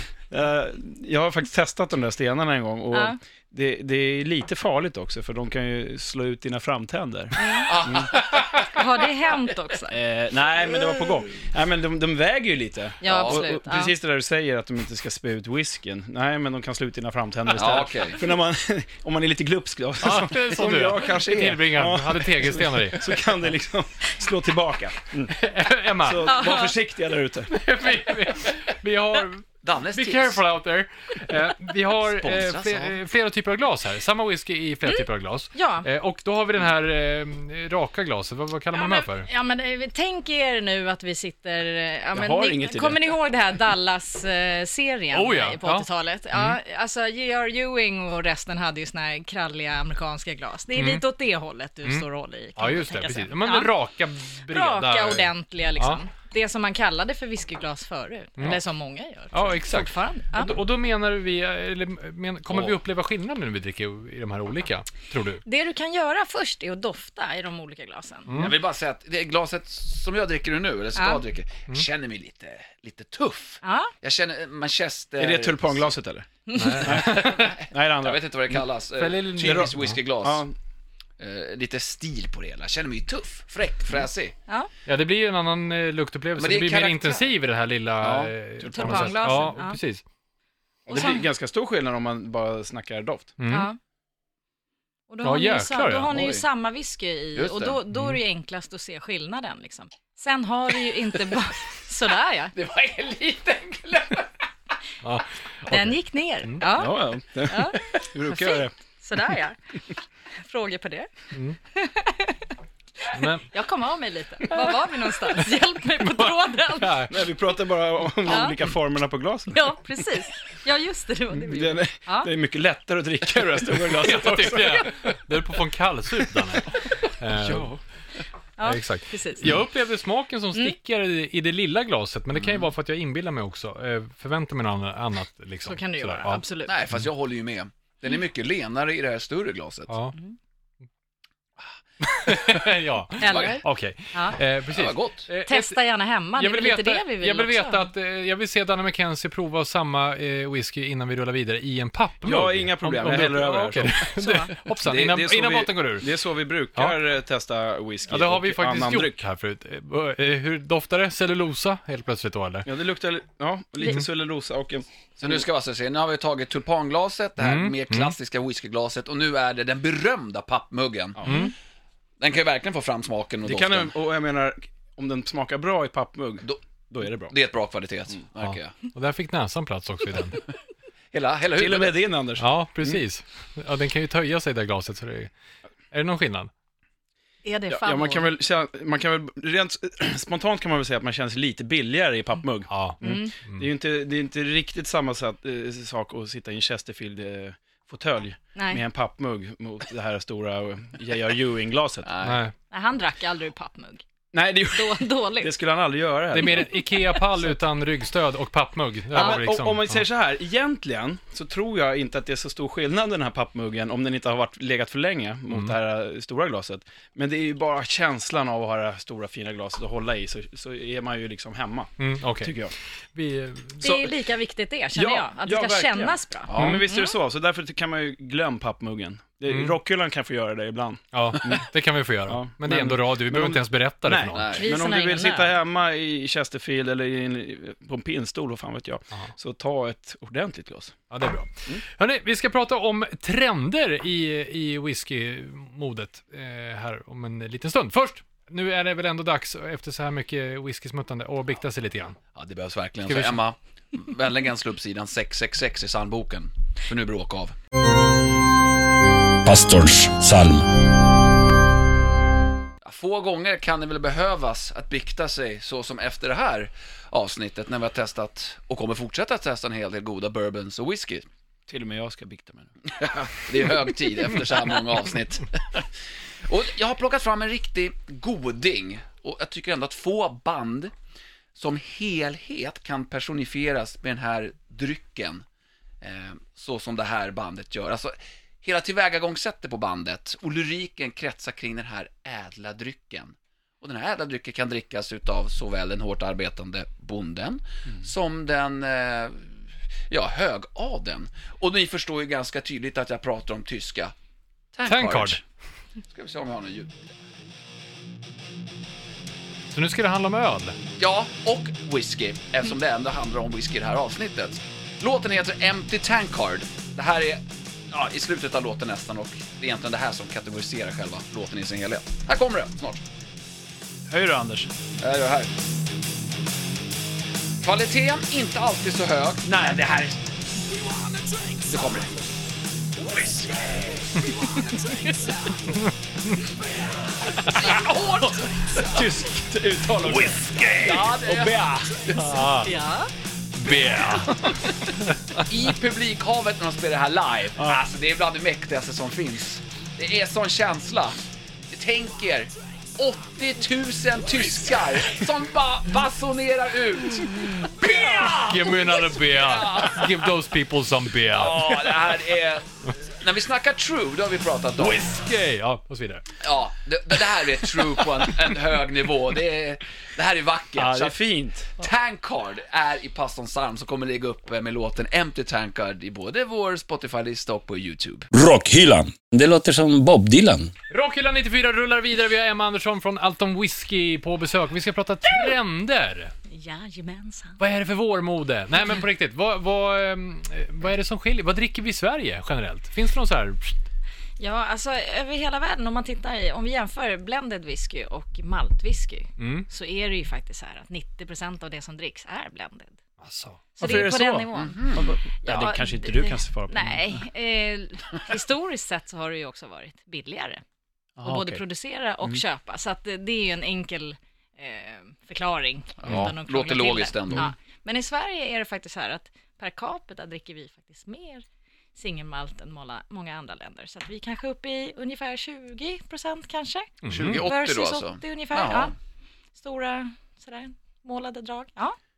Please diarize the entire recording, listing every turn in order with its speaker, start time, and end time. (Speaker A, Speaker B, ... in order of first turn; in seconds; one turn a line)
Speaker A: 0.3-8.1
Speaker B: 2.9-3.2
Speaker B: 7.3-7.8
Speaker C: 7.6-8.8
Speaker B: 8.6-10.0
Speaker A: 9.9-25.4
Speaker B: 13.0-13.9
Speaker C: 13.1-13.4
Speaker C: 17.5-18.2
Speaker D: 20.0-23.1
Speaker D: 25.3-26.5
Speaker A: 26.0-27.6
Speaker B: 26.2-26.7
Speaker D: 27.5-39.3
Speaker C: 29.6-30.4
Speaker C: 32.1-33.0
Speaker B: 34.9-35.9
Speaker B: 38.7-53.7
Speaker A: 42.1-43.0
Speaker D: 45.1-46.6
Speaker D: 50.8-51.0
Speaker D: 52.6-56.0
Speaker B: 54.5-60.6
Speaker D: 59.3-65.4
Speaker C: 62.5-62.8
Speaker B: 65.4-68.3
Speaker D: 68.3-68.6
Speaker C: 68.3-75.9
Speaker B: 71.0-71.2
Speaker B: 73.6-73.9
Speaker A: 75.2-76.3
Speaker B: 76.5-76.9
Speaker D: 76.5-77.5
Speaker A: 76.8-78.6
Speaker C: 77.0-80.4
Speaker D: 79.0-80.0
Speaker A: 79.4-80.5
Speaker C: 81.2-84.3
Speaker D: 84.8-90.0
Speaker C: 86.4-87.3
Speaker C: 88.0-88.3
Speaker A: 88.6-89.4
Speaker B: 88.7-89.8
Speaker A: 90.8-93.3
Speaker B: 90.9-91.2
Speaker D: 93.4-93.7
Speaker B: 93.5-93.8
Speaker B: 95.1-102.5
Speaker D: 95.2-96.1
Speaker C: 96.1-96.5
Speaker C: 97.3-97.8
Speaker D: 97.9-98.2
Speaker C: 102.5-104.3
Speaker D: 105.0-106.6
Speaker B: 105.7-109.6
Speaker A: 106.7-108.7
Speaker B: 110.4-111.1
Speaker B: 111.7-112.5
Speaker B: 113.0-117.1
Speaker D: 113.1-113.5
Speaker D: 116.0-117.1
Speaker A: 117.1-119.8
Speaker B: 118.2-118.6
Speaker B: 119.5-122.3
Speaker A: 121.3-124.9
Speaker D: 123.6-127.7
Speaker A: 127.4-127.8
Speaker B: 128.6-129.5
Speaker D: 128.6-136.4
Speaker C: 132.3-132.7
Speaker B: 135.6-136.8
Speaker C: 136.7-139.9
Speaker D: 139.9-140.1
Speaker D: 142.1-145.8
Speaker C: 142.3-142.5
Speaker B: 143.2-144.4
Speaker C: 143.2-143.6
Speaker C: 144.7-145.3
Speaker B: 145.4-147.9
Speaker D: 146.4-156.1
Speaker A: 152.2-154.0
Speaker B: 154.2-154.5
Speaker A: 154.8-159.2
Speaker D: 158.1-162.7
Speaker A: 162.6-165.4
Speaker C: 165.2-171.2
Speaker D: 167.4-168.2
Speaker A: 171.2-171.4
Speaker D: 171.2-171.5
Speaker B: 171.2-171.5
Speaker C: 172.2-173.9
Speaker A: 173.4-177.3
Speaker C: 177.3-178.7
Speaker D: 178.4-180.4
Speaker C: 181.1-181.9
Speaker A: 181.6-183.0
Speaker D: 182.4-185.3
Speaker D: 185.9-186.5
Speaker B: 187.4-188.3
Speaker A: 187.7-202.1
Speaker D: 192.7-193.7
Speaker B: 193.0-193.3
Speaker B: 198.5-198.8
Speaker C: 202.0-202.4
Speaker D: 202.2-202.5
Speaker B: 202.7-204.0
Speaker A: 204.3-206.7
Speaker B: 204.7-205.5
Speaker D: 206.3-210.0
Speaker B: 206.4-207.2
Speaker A: 209.1-222.7
Speaker D: 215.5-215.8
Speaker D: 222.0-222.6
Speaker D: 223.1-223.9
Speaker B: 223.8-227.2
Speaker A: 223.8-224.1
Speaker A: 224.9-231.6
Speaker C: 226.5-226.8
Speaker D: 229.5-229.7
Speaker D: 231.1-234.5
Speaker A: 232.3-241.0
Speaker C: 234.3-234.7
Speaker B: 234.6-235.5
Speaker D: 241.1-252.2
Speaker C: 252.3-257.6
Speaker D: 253.1-253.4
Speaker E: 259.4-260.6
Speaker C: 262.8-271.3
Speaker A: 271.7-272.7
Speaker C: 272.9-275.9
Speaker C: 276.4-280.9
Speaker C: 281.6-285.4
Speaker C: 286.0-299.6
Speaker C: 300.1-304.1
Speaker C: 304.7-305.4
Speaker D: 304.9-305.4
Speaker C: 306.1-307.0
Speaker D: 309.7-310.8
Speaker C: 311.0-323.0
Speaker A: 324.1-324.7
Speaker C: 325.0-325.5
Speaker C: 327.6-330.1
Speaker A: 329.4-330.1
Speaker C: 331.6-332.1
Speaker C: 333.1-334.1
Speaker C: 337.4-339.1
Speaker A: 338.8-341.8
Speaker C: 340.6-342.4
Speaker D: 342.1-342.7
Speaker B: 342.6-343.1
Speaker D: 343.5-344.4
Speaker C: 344.2-344.5
Speaker D: 345.1-345.4
Speaker C: 345.4-351.2
Speaker A: 347.6-347.8
Speaker C: 351.7-360.3
Speaker D: 357.8-362.2
Speaker C: 361.3-365.1
Speaker D: 364.8-366.4
Speaker C: 366.4-371.1
Speaker D: 368.0-368.3
Speaker A: 370.8-371.7
Speaker C: 371.8-378.3
Speaker E: 378.3-380.7
Speaker D: 380.9-386.3
Speaker B: 386.5-387.6
Speaker D: 387.6-393.8
Speaker B: 394.4-403.0
Speaker D: 399.4-399.7
Speaker D: 403.2-403.6
Speaker B: 403.8-410.6
Speaker A: 403.8-407.2
Speaker C: 404.5-405.1
Speaker A: 411.2-411.6
Speaker B: 411.2-428.9
Speaker C: 416.0-417.5
Speaker D: 427.0-427.5
Speaker C: 427.1-428.9
Speaker B: 429.5-432.0